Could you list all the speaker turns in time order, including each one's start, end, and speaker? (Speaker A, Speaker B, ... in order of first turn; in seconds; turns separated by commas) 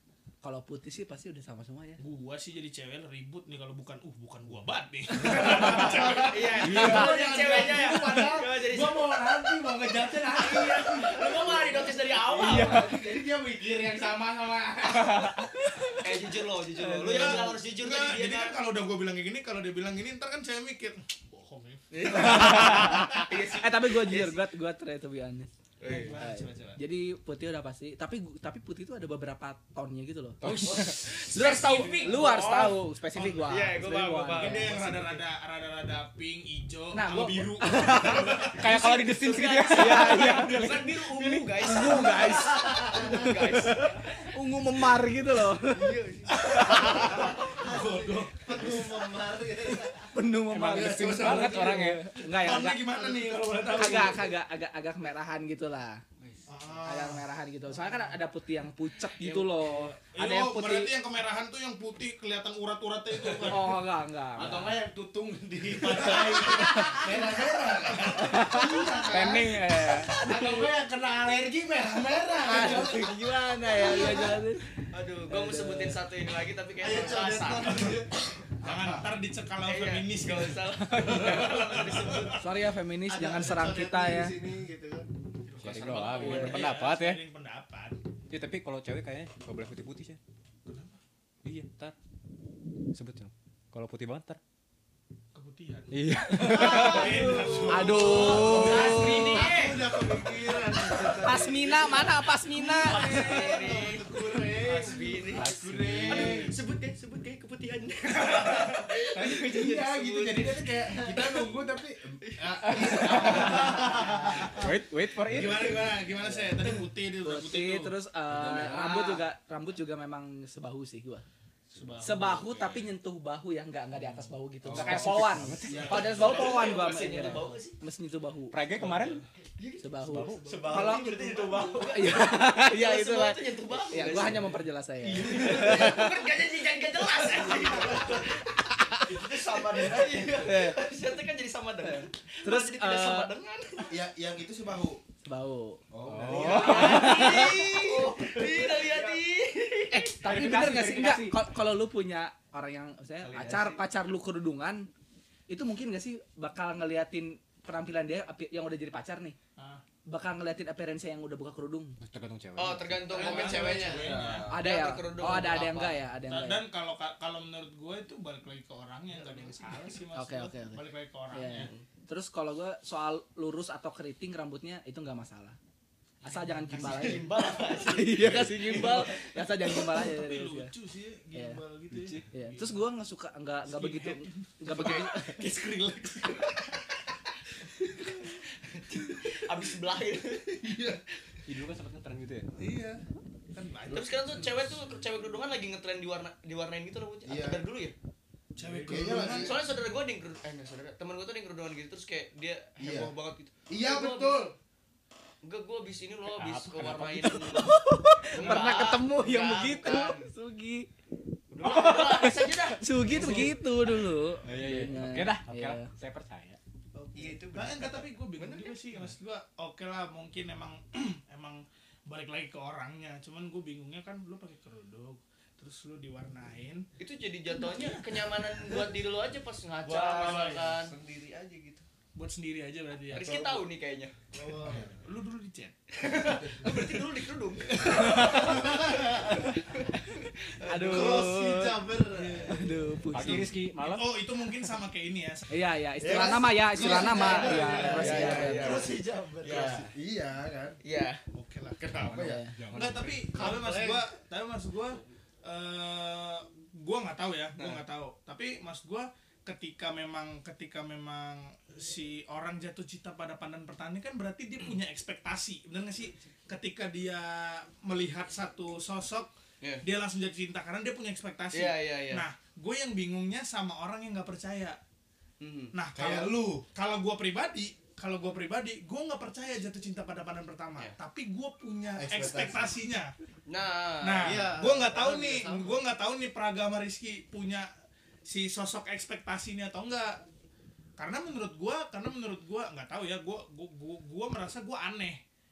Speaker A: 0.4-2.0, Speaker B: 2.0-6.9, Speaker C: 5.7-15.0, Speaker D: 5.7-9.2, Speaker E: 6.6-7.1, Speaker A: 6.7-7.1, Speaker B: 7.9-8.4, Speaker D: 10.4-12.9, Speaker A: 12.4-13.3, Speaker E: 12.4-13.0, Speaker A: 14.8-16.2, Speaker D: 16.0-18.6, Speaker A: 16.8-17.6, Speaker B: 17.1-22.5, Speaker D: 21.9-24.4, Speaker A: 22.0-35.2, Speaker D: 25.8-26.2, Speaker B: 25.8-26.8, Speaker E: 30.4-31.1, Speaker D: 30.5-35.2, Speaker B: 31.1-32.5, Speaker B: 34.3-38.7, Speaker A: 36.9-39.1, Speaker E: 38.5-41.6, Speaker D: 38.7-44.3, Speaker A: 39.7-40.9, Speaker A: 41.6-47.1, Speaker D: 45.6-47.3, Speaker B: 46.3-48.9, Speaker F: 46.5-50.1, Speaker A: 50.1-53.0, Speaker E: 50.5-52.2, Speaker C: 50.7-51.5, Speaker B: 52.3-54.3, Speaker A: 53.6-56.0, Speaker B: 56.5-58.1, Speaker A: 56.8-60.9, Speaker B: 59.2-63.8, Speaker A: 63.5-64.8, Speaker C: 64.4-74.4, Speaker B: 65.8-66.7, Speaker B: 67.8-68.3, Speaker A: 68.1-69.3, Speaker E: 69.1-70.2, Speaker A: 70.2-70.7, Speaker A: 72.4-74.6, Speaker D: 74.9-78.0, Speaker A: 75.3-76.0, Speaker F: 76.8-78.1, Speaker C: 78.6-79.1, Speaker B: 78.6-82.4, Speaker D: 79.6-82.5, Speaker A: 82.3-84.4, Speaker F: 83.1-85.1, Speaker B: 85.5-88.0, Speaker E: 85.6-87.2, Speaker D: 85.8-86.7, Speaker E: 88.3-90.2, Speaker B: 90.7-91.0, Speaker E: 91.4-92.0, Speaker E: 92.9-94.4, Speaker B: 95.3-98.8, Speaker E: 95.9-97.0, Speaker A: 96.3-99.5, Speaker D: 96.5-99.9, Speaker F: 96.8-102.1, Speaker A: 101.2-103.5, Speaker F: 102.7-106.5, Speaker D: 102.8-105.5, Speaker E: 105.3-106.5, Speaker C: 105.7-106.5, Speaker D: 106.1-111.3, Speaker C: 109.1-114.5, Speaker E: 112.6-113.8, Speaker D: 112.7-113.7, Speaker A: 113.2-114.5, Speaker B: 113.7-118.0, Speaker E: 114.5-115.9, Speaker A: 117.2-121.2, Speaker C: 118.3-119.1, Speaker D: 118.6-119.2, Speaker B: 121.7-122.9, Speaker A: 122.0-128.6, Speaker C: 124.6-126.5, Speaker E: 124.7-126.3, Speaker B: 125.7-126.1, Speaker D: 126.0-127.8, Speaker E: 128.5-129.2, Speaker B: 128.8-129.2, Speaker D: 129.6-144.0, Speaker A: 129.8-131.2, Speaker E: 130.1-131.0, Speaker F: 131.0-131.6, Speaker A: 131.8-136.1, Speaker C: 135.1-135.7, Speaker F: 139.1-140.3, Speaker A: 140.4-140.9, Speaker A: 141.8-143.3, Speaker C: 143.9-145.0, Speaker A: 145.2-145.8, Speaker C: 145.9-148.9, Speaker E: 146.1-147.4, Speaker D: 146.3-150.2, Speaker A: 146.5-147.8, Speaker A: 149.9-154.9, Speaker E: 150.2-151.4, Speaker C: 153.2-153.8, Speaker A: 155.5-159.4, Speaker B: 159.6-159.8, Speaker A: 160.1-162.0, Speaker E: 162.0-163.3, Speaker D: 162.6-166.0, Speaker B: 163.1-164.6, Speaker F: 163.1-164.4, Speaker C: 163.9-164.6, Speaker A: 164.5-166.7, Speaker B: 166.3-171.7, Speaker A: 170.1-175.6, Speaker D: 171.6-171.8, Speaker A: 176.2-180.7, Speaker B: 176.3-177.2, Speaker D: 176.7-179.5, Speaker B: 179.9-182.8, Speaker A: 181.3-181.6, Speaker E: 181.9-182.2, Speaker A: 182.3-185.5, Speaker B: 183.7-186.8, Speaker D: 184.7-185.1, Speaker B: 188.0-188.2, Speaker D: 188.2-191.0, Speaker C: 190.6-191.0, Speaker E: 191.5-192.5, Speaker B: 192.6-194.7, Speaker D: 193.9-197.9, Speaker C: 197.2-197.6, Speaker B: 198.6-199.6, Speaker C: 198.7-199.6, Speaker D: 198.9-204.5, Speaker C: 202.8-203.1, Speaker C: 203.7-204.6, Speaker D: 205.4-207.8, Speaker E: 206.3-207.5, Speaker A: 207.2-210.9, Speaker D: 208.3-210.3, Speaker B: 208.3-208.8, Speaker D: 211.5-213.6, Speaker A: 211.6-215.9, Speaker B: 213.1-213.6, Speaker E: 214.4-216.6, Speaker B: 217.0-226.9, Speaker F: 217.1-218.1, Speaker D: 218.4-218.7, Speaker D: 227.0-230.9, Speaker B: 227.6-228.0, Speaker F: 229.8-231.9, Speaker B: 232.2-233.6, Speaker D: 233.1-234.1, Speaker C: 233.2-233.4, Speaker F: 234.3-234.9, Speaker B: 234.6-235.8, Speaker C: 234.7-234.9, Speaker D: 236.1-241.3, Speaker C: 236.2-236.8, Speaker B: 237.8-238.7, Speaker A: 237.8-238.5, Speaker F: 238.2-239.4, Speaker A: 240.7-241.8, Speaker F: 240.7-242.7, Speaker B: 242.1-245.5, Speaker A: 242.5-243.6, Speaker E: 243.1-244.1, Speaker A: 245.5-248.8, Speaker C: 246.0-248.6, Speaker F: 246.1-249.9, Speaker D: 247.7-249.9, Speaker B: 247.8-248.2, Speaker C: 249.9-250.8, Speaker D: 250.8-251.2, Speaker B: 251.3-252.1, Speaker C: 251.9-252.5, Speaker A: 252.1-252.5, Speaker E: 252.6-253.4, Speaker B: 252.7-274.8, Speaker F: 253.3-254.1, Speaker D: 271.5-272.2, Speaker D: 275.4-275.7, Speaker B: 275.7-283.1, Speaker C: 275.9-276.6, Speaker C: 282.0-282.7, Speaker D: 283.5-284.6, Speaker B: 284.0-287.7, Speaker F: 284.2-285.8, Speaker B: 288.3-290.2, Speaker B: 291.0-295.2